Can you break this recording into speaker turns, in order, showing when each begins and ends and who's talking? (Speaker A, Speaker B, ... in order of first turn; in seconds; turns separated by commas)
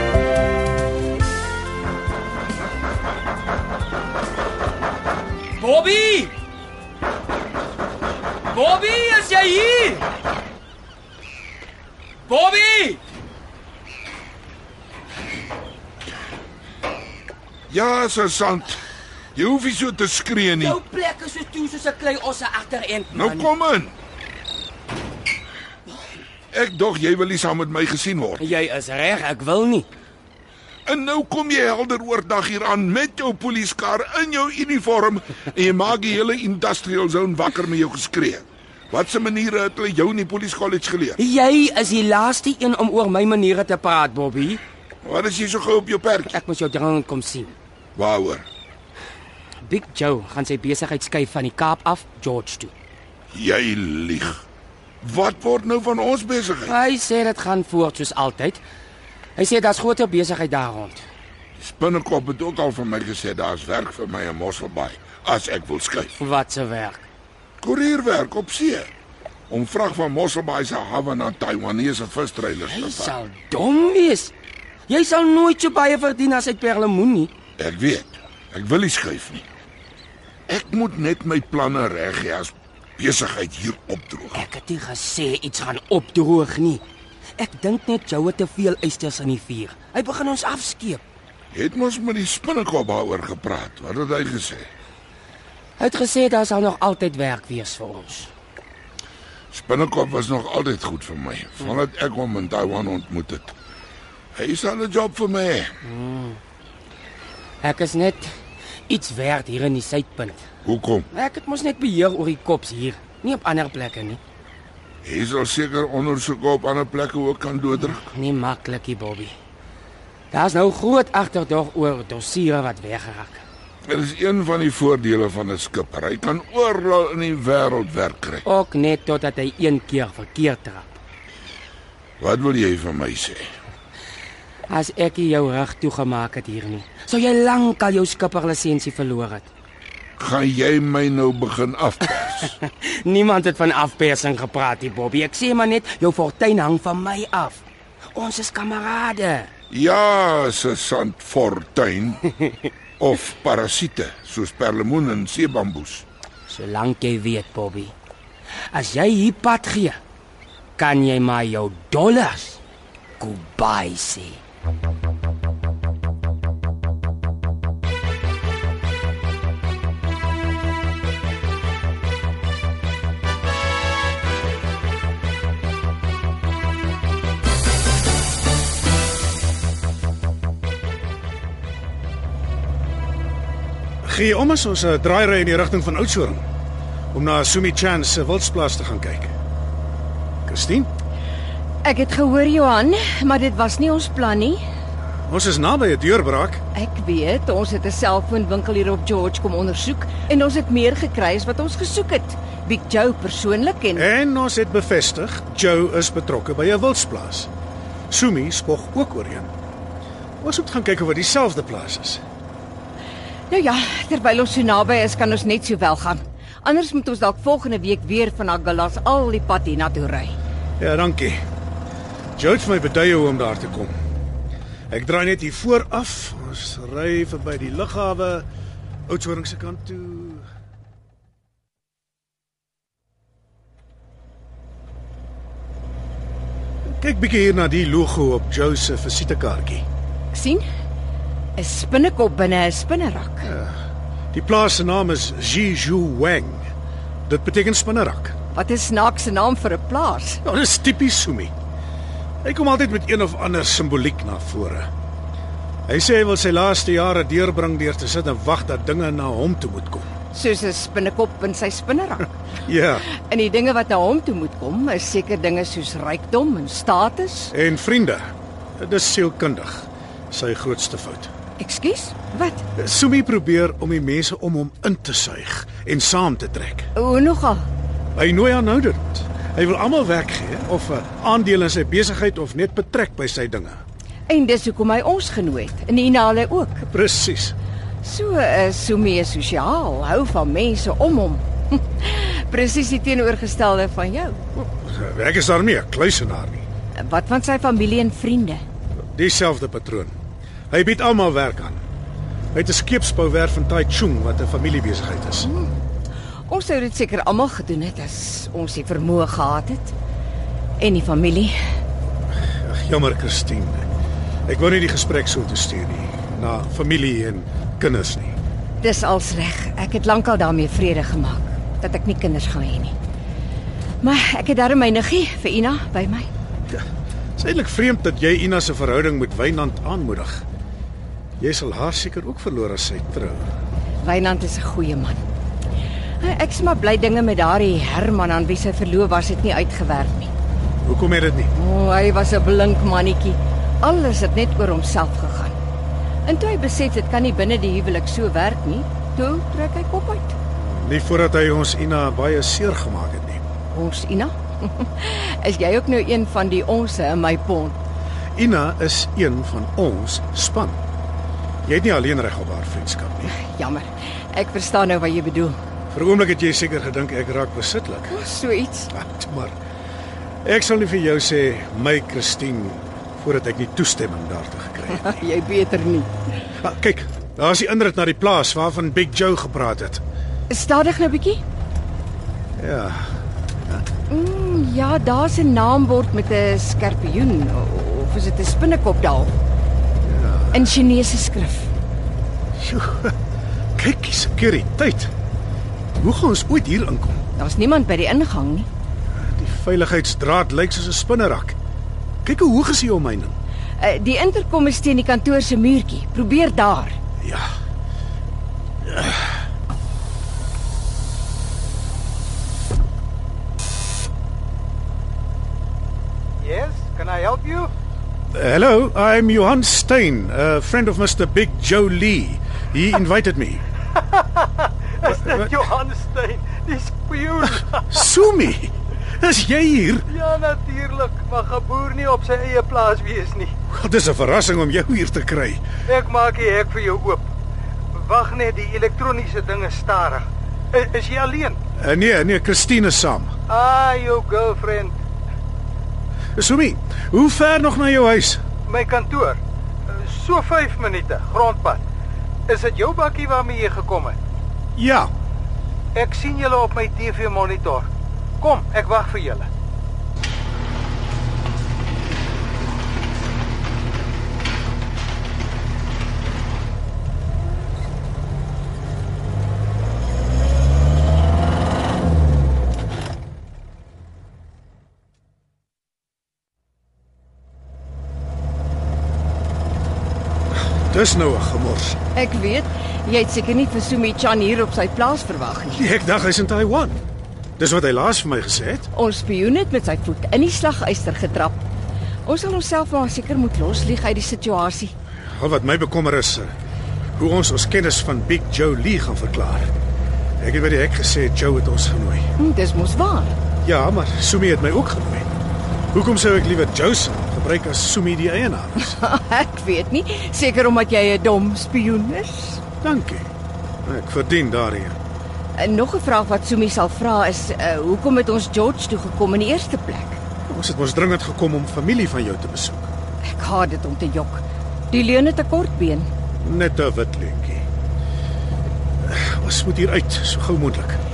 Speaker A: 5.6-6.3, Speaker A: 8.5-10.0, Speaker A: 12.3-13.0, Speaker B: 17.7-18.8, Speaker B: 19.3-20.8, Speaker A: 20.6-23.5, Speaker B: 23.1-23.9, Speaker B: 26.5-28.4, Speaker A: 28.4-29.9, Speaker B: 30.9-41.2, Speaker A: 41.2-44.6, Speaker B: 45.0-46.4, Speaker A: 46.3-47.5, Speaker B: 48.0-48.4, Speaker A: 49.6-52.7, Speaker B: 53.3-54.4, Speaker B: 55.0-56.7, Speaker A: 56.6-58.6, Speaker A: 59.4-61.0, Speaker B: 61.6-66.1, Speaker A: 66.2-67.0, Speaker B: 67.6-68.9, Speaker B: 69.5-73.1, Speaker A: 72.7-74.3, Speaker A: 74.9-77.3, Speaker B: 77.6-79.5, Speaker B: 80.5-84.4, Speaker A: 84.3-86.8, Speaker A: 87.4-91.0, Speaker B: 91.5-94.7, Speaker A: 95.8-98.3, Speaker B: 99.5-103.5, Speaker B: 104.3-105.7, Speaker A: 105.8-106.4, Speaker A: 107.6-108.3, Speaker A: 108.9-110.4, Speaker B: 110.6-111.1, Speaker A: 111.1-114.2, Speaker B: 115.0-118.0, Speaker A: 117.8-119.3, Speaker A: 120.3-123.4, Speaker B: 123.9-128.4, Speaker A: 128.4-130.9, Speaker B: 132.2-133.4, Speaker A: 134.7-139.5, Speaker B: 140.2-142.5, Speaker A: 142.6-149.5, Speaker B: 149.7-152.2, Speaker B: 153.0-156.0, Speaker A: 156.5-157.9, Speaker A: 158.7-160.0, Speaker A: 160.8-162.6, Speaker A: 163.2-164.4, Speaker C: 184.0-186.4, Speaker C: 187.1-189.3, Speaker C: 190.4-190.9, Speaker D: 191.8-194.6, Speaker C: 195.3-196.6, Speaker D: 196.7-204.1, Speaker C: 203.9-207.5, Speaker C: 208.1-209.5, Speaker C: 210.4-212.2, Speaker D: 213.5-220.4, Speaker C: 220.8-221.4, Speaker C: 222.3-223.9, Speaker C: 224.9-228.4, Speaker C: 229.1-230.4, Speaker C: 236.8-239.8, Speaker D: 240.3-240.6, Speaker D: 241.6-243.5, Speaker C: 243.4-243.8, Speaker C: 244.3-246.7, Speaker C: 247.3-248.3, Speaker D: 248.5-250.4, Speaker C: 250.4-251.5, Speaker C: 252.4-254.9, Speaker C: 255.9-260.1, Speaker D: 260.3-262.3, Speaker C: 262.6-263.1, Speaker D: 263.0-267.5, Speaker C: 267.5-271.3, Speaker D: 271.6-272.6, Speaker C: 272.8-276.9, Speaker D: 276.9-277.6, Speaker C: 278.1-283.8, Speaker D: 284.3-286.9, Speaker C: 286.9-287.5, Speaker D: 288.0-294.4, Speaker C: 294.6-296.6, Speaker D: 297.0-298.6, Speaker C: 299.1-300.1, Speaker C: 300.7-301.8, Speaker C: 302.5-305.5, Speaker D: 305.4-305.7, Speaker D: 306.5-309.9, Speaker D: 310.8-311.6, Speaker C: 312.6-313.9, Speaker C: 314.5-318.4, Speaker D: 318.8-322.9, Speaker D: 324.0-326.3, Speaker C: 327.4-330.4, Speaker C: 331.4-333.4, Speaker D: 334.0-335.2, Speaker D: 336.2-340.3, Speaker C: 340.8-341.5, Speaker D: 341.5-345.6, Speaker D: 346.2-350.4, Speaker C: 350.6-353.4, Speaker D: 353.7-357.8, Speaker C: 358.3-360.8, Speaker C: 361.6-363.3, Speaker D: 363.3-365.6, Speaker C: 365.9-368.2, Speaker D: 368.1-368.9, Speaker C: 368.9-369.5, Speaker C: 370.4-375.1, Speaker D: 374.9-376.1, Speaker C: 376.6-380.0, Speaker D: 380.5-381.4, Speaker C: 382.6-383.1, Speaker D: 384.1-389.3, Speaker C: 390.0-390.8, Speaker D: 390.5-391.7, Speaker C: 392.6-393.1, Speaker C: 393.8-395.1, Speaker C: 396.0-397.2, Speaker D: 397.4-398.7, Speaker C: 399.2-401.6, Speaker C: 402.2-403.4, Speaker D: 403.8-407.0, Speaker C: 407.2-407.5, Speaker C: 408.9-409.3, Speaker E: 416.4-417.7, Speaker C: 418.3-423.6, Speaker E: 424.1-428.1, Speaker C: 427.9-430.1, Speaker E: 430.1-433.5, Speaker C: 433.7-435.6, Speaker E: 435.9-437.3, Speaker E: 437.9-441.6, Speaker C: 441.8-443.3, Speaker E: 443.5-444.9, Speaker C: 446.4-448.4, Speaker E: 448.6-451.8, Speaker E: 452.5-454.2, Speaker C: 454.8-455.1, Speaker E: 455.9-457.9, Speaker E: 458.4-459.5, Speaker C: 480.9-482.0, Speaker D: 482.1-485.8, Speaker C: 485.7-487.0, Speaker C: 487.6-488.9, Speaker D: 488.9-491.6, Speaker D: 492.2-494.9, Speaker C: 495.2-496.5, Speaker C: 497.1-499.7, Speaker C: 500.4-502.3, Speaker D: 502.4-503.4, Speaker C: 503.6-505.3, Speaker C: 505.9-509.0, Speaker D: 508.8-512.6, Speaker C: 512.8-513.3, Speaker C: 513.8-515.0, Speaker D: 515.6-520.2, Speaker C: 520.5-522.9, Speaker D: 523.2-526.1, Speaker C: 526.4-527.6, Speaker C: 529.0-531.0